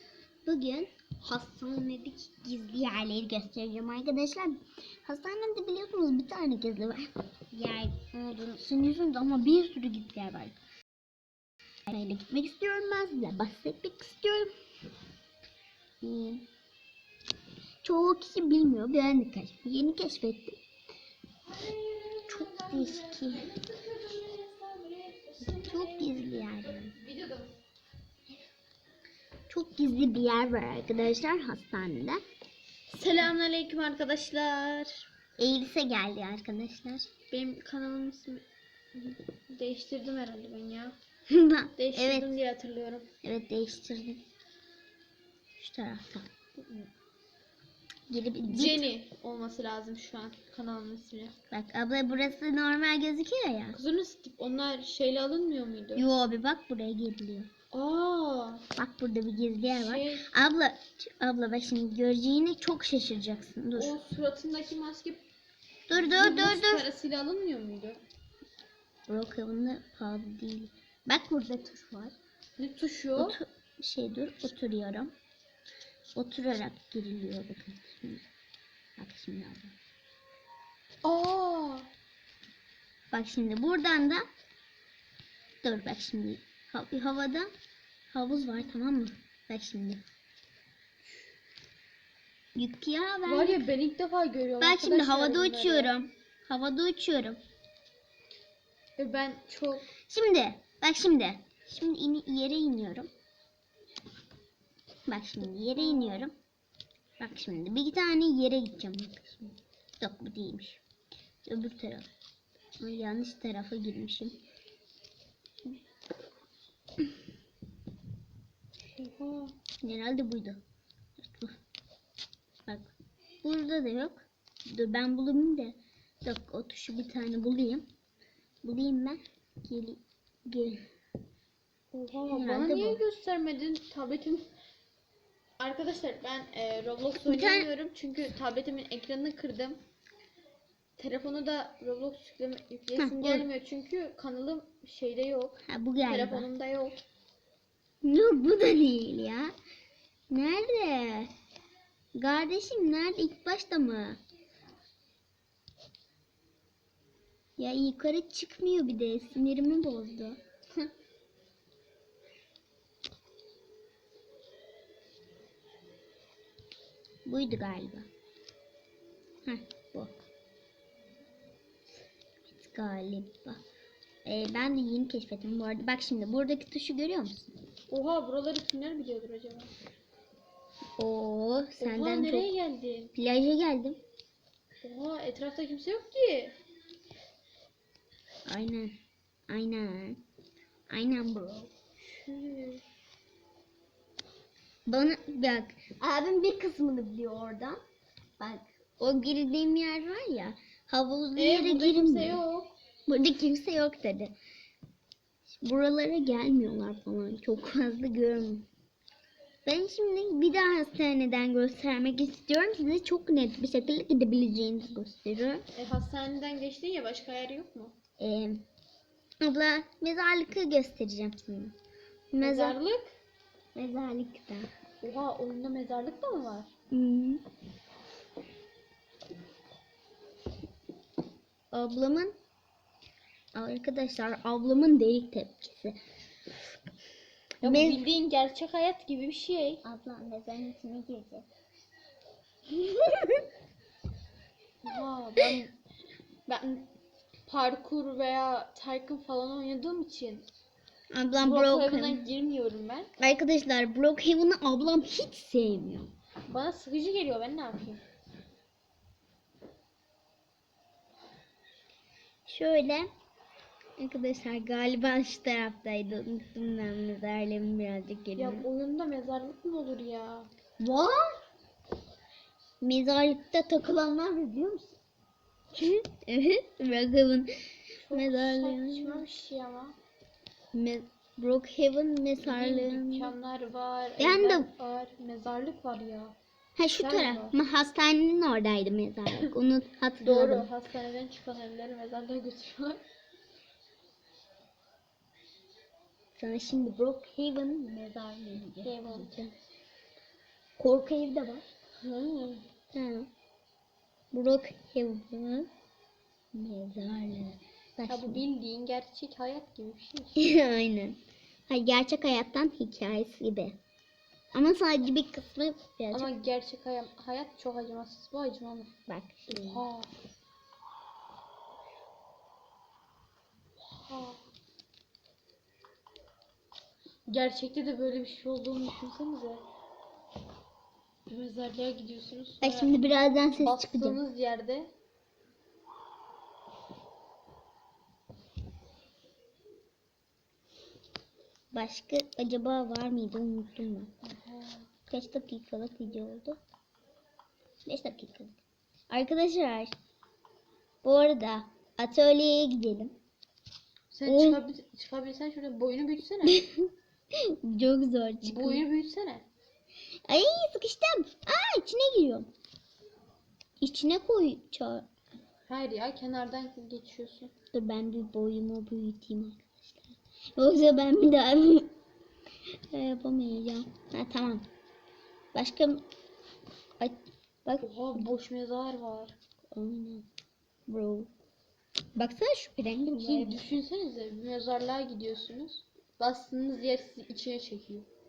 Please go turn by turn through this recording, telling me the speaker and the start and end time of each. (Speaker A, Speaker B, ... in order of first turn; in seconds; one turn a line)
Speaker A: 0.5-10.6
Speaker A: 11.9-14.5
Speaker A: 16.0-16.4
Speaker A: 17.8-20.6
Speaker B: 21.5-27.6
Speaker A: 22.3-23.5
Speaker A: 25.4-27.0
Speaker A: 29.5-32.2
Speaker B: 32.9-35.1
Speaker A: 35.4-37.1
Speaker B: 37.3-38.4
Speaker B: 39.0-41.0
Speaker A: 41.3-42.3
Speaker B: 41.8-43.1
Speaker A: 43.2-44.2
Speaker A: 45.5-46.3
Speaker B: 46.6-46.9
Speaker A: 48.1-48.9
Speaker B: 48.4-51.4
Speaker A: 51.5-53.8
Speaker B: 53.7-56.1
Speaker A: 56.0-57.5
Speaker B: 57.7-58.6
Speaker A: 58.8-64.0
Speaker B: 59.7-60.4
Speaker B: 63.8-65.2
Speaker A: 65.9-66.9
Speaker B: 65.9-68.0
Speaker A: 69.1-72.1
Speaker B: 72.6-73.4
Speaker A: 73.2-75.1
Speaker A: 76.1-78.2
Speaker A: 79.0-79.8
Speaker B: 81.0-81.9
Speaker A: 83.1-84.2
Speaker A: 85.6-87.5
Speaker A: 88.1-90.0
Speaker A: 92.6-93.7
Speaker B: 93.3-95.9
Speaker A: 94.6-97.4
Speaker B: 99.0-99.9
Speaker A: 100.1-103.1
Speaker A: 105.1-106.3
Speaker B: 105.8-106.2
Speaker A: 107.2-110.8
Speaker A: 111.5-112.1
Speaker A: 112.8-114.4
Speaker B: 119.0-119.5
Speaker A: 119.8-120.6
Speaker A: 121.2-121.5
Speaker A: 123.4-127.9
Speaker A: 128.6-130.8
Speaker B: 131.9-134.5
Speaker A: 132.3-133.0
Speaker B: 135.6-139.8
Speaker A: 137.2-137.7
Speaker B: 141.0-147.0
Speaker A: 143.0-143.5
Speaker A: 145.7-146.5
Speaker A: 148.0-149.5
Speaker A: 150.3-151.3
Speaker A: 152.2-154.2
Speaker A: 157.6-160.9
Speaker A: 167.2-168.1
Speaker A: 169.4-170.2
Speaker A: 172.5-173.6
Speaker A: 174.2-177.5
Speaker B: 177.9-179.7
Speaker A: 181.0-182.5
Speaker B: 181.8-183.1
Speaker A: 183.2-184.0
Speaker B: 184.8-186.6
Speaker A: 188.5-188.9
Speaker A: 189.5-190.2
Speaker A: 190.9-191.7
Speaker B: 192.0-192.8
Speaker A: 194.9-197.8
Speaker A: 198.4-202.4
Speaker B: 201.4-202.7
Speaker A: 203.1-204.3
Speaker A: 205.5-208.7
Speaker A: 209.7-215.7
Speaker B: 215.8-218.0
Speaker A: 218.2-218.6
Speaker A: 219.4-221.8
Speaker A: 222.3-222.8
Speaker B: 222.4-223.1
Speaker A: 223.8-224.7
Speaker B: 225.0-226.7
Speaker A: 226.9-227.4
Speaker A: 231.7-232.4
Speaker A: 233.6-236.0
Speaker B: 237.6-239.8
Speaker A: 237.6-238.0
Speaker A: 239.8-241.5
Speaker A: 242.7-243.4
Speaker B: 244.8-245.7
Speaker B: 246.5-246.9
Speaker B: 247.5-250.5
Speaker A: 251.1-252.2
Speaker B: 251.4-253.1
Speaker A: 253.2-256.1
Speaker B: 256.5-258.0
Speaker A: 262.5-263.1
Speaker A: 264.0-268.7
Speaker B: 268.4-270.5
Speaker A: 270.8-271.4
Speaker A: 272.8-275.0
Speaker A: 275.8-277.5
Speaker B: 278.0-280.0
Speaker A: 278.1-279.2
Speaker A: 280.7-283.3
Speaker B: 282.4-286.4
Speaker A: 284.2-284.7
Speaker A: 286.8-290.7
Speaker B: 286.9-287.6
Speaker B: 290.2-293.0
Speaker A: 296.4-299.5
Speaker B: 298.8-299.3
Speaker A: 300.8-301.6
Speaker B: 302.0-302.6
Speaker A: 302.9-303.3
Speaker A: 304.3-305.7
Speaker A: 306.5-308.4
Speaker B: 308.1-310.4
Speaker A: 310.4-313.8
Speaker A: 314.5-316.3
Speaker B: 316.1-318.9
Speaker A: 319.1-319.8
Speaker B: 319.5-320.1
Speaker B: 323.8-324.4
Speaker B: 327.3-329.6
Speaker B: 331.3-334.9
Speaker A: 332.6-334.2
Speaker A: 341.7-344.1
Speaker B: 344.2-344.9
Speaker A: 345.1-346.6
Speaker A: 347.9-348.6
Speaker A: 349.1-349.9
Speaker A: 351.0-353.2
Speaker B: 354.1-356.6
Speaker A: 354.3-354.6
Speaker A: 356.5-358.9
Speaker B: 358.4-359.5
Speaker A: 360.3-362.5
Speaker A: 363.8-365.1
Speaker B: 365.7-367.5
Speaker A: 367.7-371.9
Speaker A: 372.9-374.6
Speaker A: 375.5-376.0
Speaker A: 377.0-378.3
Speaker B: 377.8-379.4
Speaker A: 379.7-380.2
Speaker A: 380.9-381.3
Speaker A: 382.2-383.7
Speaker B: 383.2-388.1